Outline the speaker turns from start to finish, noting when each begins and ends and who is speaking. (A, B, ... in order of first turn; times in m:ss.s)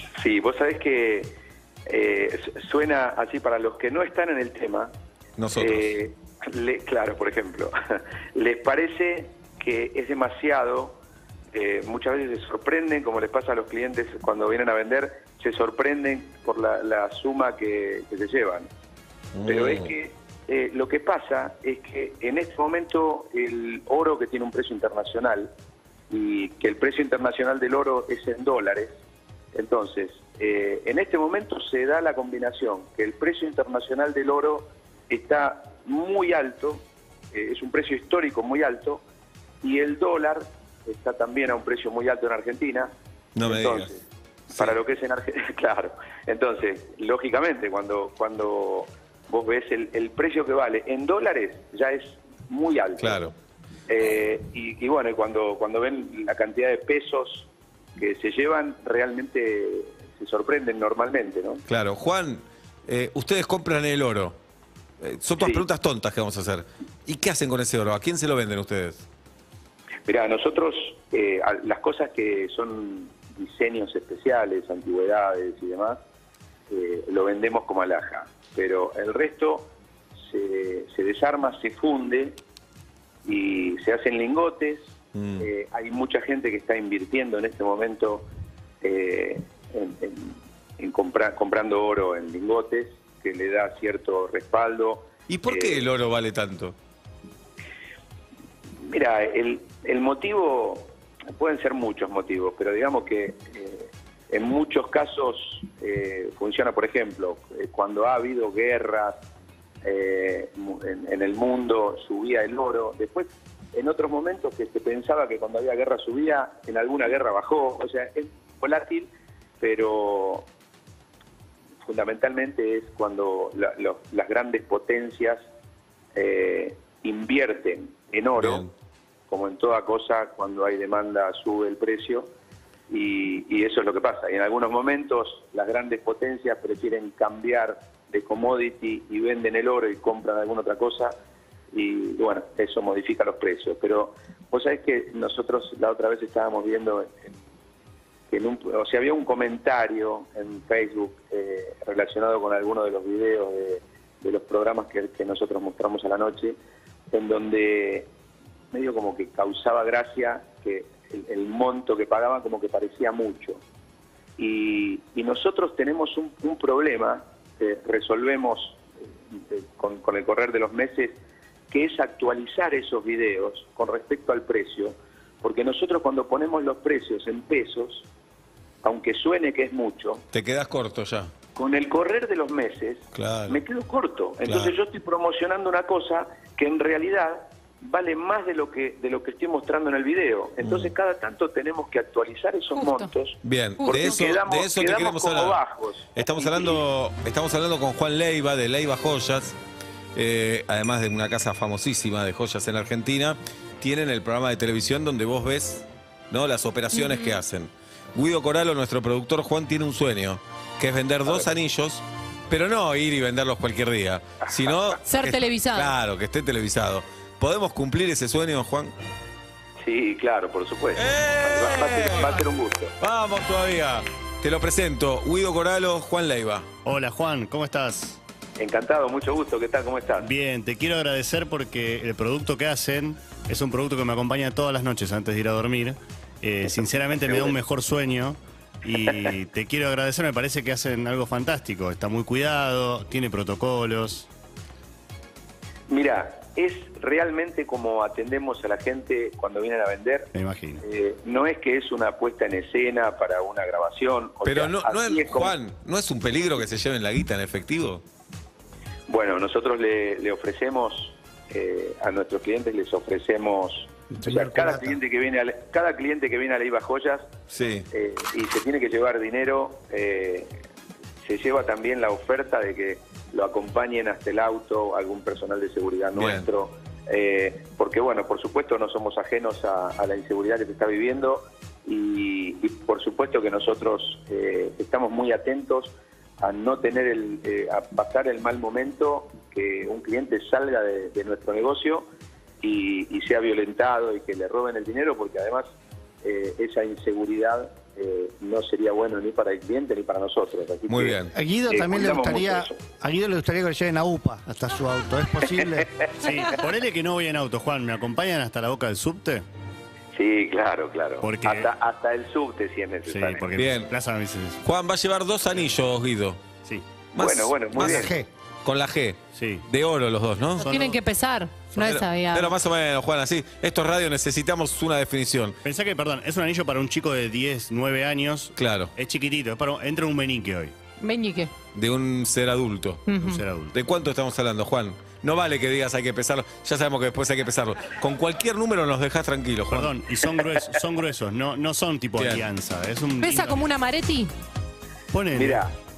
0:00.2-0:01.4 A
0:01.9-0:04.9 A
0:05.4-0:05.9 B
0:05.5-0:07.7 A
0:08.3-0:11.0 A
0:11.5-0:18.7 A
0:19.3-0:19.9 B
0:19.4-0:25.5 A
0:26.1-0:28.9 A
0:29.5-0:39.0 A
0:39.6-0:42.9 A
0:43.4-0:43.9 B
0:43.4-0:44.0 A
0:44.5-0:53.2 A
0:53.0-0:53.3 B
0:53.9-1:01.6 A
1:01.6-1:04.4 B
1:05.0-1:09.0 B
1:05.4-1:05.6 A
1:10.0-1:16.0 A
1:16.7-1:19.7 A
1:20.3-1:22.4 A
1:23.2-1:24.9 A
1:25.1-1:25.5 B
1:25.4-1:28.3 A
1:28.8-1:35.9 A
1:35.3-1:36.7 B
1:38.8-1:49.2 A
1:49.8-2:00.5 A
2:01.8-2:05.4 A
2:06.1-2:08.7 A
2:08.3-2:08.7 B
2:09.3-2:12.3 A
2:12.9-2:21.1 A
2:21.7-2:27.3 A
2:28.3-2:36.6 A
2:37.1-2:38.1 A
2:38.7-2:43.6 A
2:44.4-2:48.8 A
2:49.4-2:51.2 A
2:51.7-2:58.1 A
2:58.8-3:00.2 A
3:00.3-3:01.3 B
3:01.5-3:16.8 A
3:03.1-3:03.6 B
3:04.4-3:04.7 B
3:10.6-3:10.9 B
3:12.7-3:13.1 C
3:13.4-3:15.6 B
3:13.8-3:14.2 C
3:16.1-3:19.6 B
3:20.1-3:38.9 B
3:26.9-3:27.4 C
3:31.2-3:31.5 A
3:35.0-3:35.9 C
3:39.8-3:42.9 A
3:40.9-3:42.4 B
3:43.0-3:46.7 B
3:46.8-3:48.2 D
3:48.6-3:50.2 A
3:50.2-4:04.3 D
4:05.9-4:10.3 A
4:10.3-4:10.8 D
4:10.8-4:15.6 A
4:14.4-4:18.0 B
4:19.1-4:27.3 A
4:24.1-4:25.0 E
4:27.5-4:27.9 B
4:27.9-4:30.6 A
4:31.2-4:52.0 A
4:36.1-4:36.5 B
4:52.6-4:55.6 A
4:56.2-5:02.8 A
5:00.9-5:01.3 B
5:01.3-5:05.9 E
5:06.2-5:09.4 D
5:10.1-5:13.4 A
5:11.2-5:11.7 D
5:13.0-5:14.6 D
5:13.5-5:13.9 B
5:14.6-5:16.4 B
5:17.1-5:18.1 B
5:17.2-5:18.1 A
5:17.7-5:18.3 E
5:18.6-5:20.6 B
5:19.3-5:19.6 D
5:20.6-5:21.0 D
5:20.6-5:22.6 C
5:21.7-5:25.6 B
5:25.6-5:30.7 D
5:28.6-5:28.9 B
5:31.0-5:31.5 C
5:31.7-5:33.0 B
5:33.1-5:33.4 C
5:33.1-5:33.7 D
5:33.7-5:39.9 B
5:39.7-5:43.7 D
5:42.2-5:42.5 B
5:43.2-5:44.3 C
5:45.1-5:45.6 D
5:45.3-5:45.6 A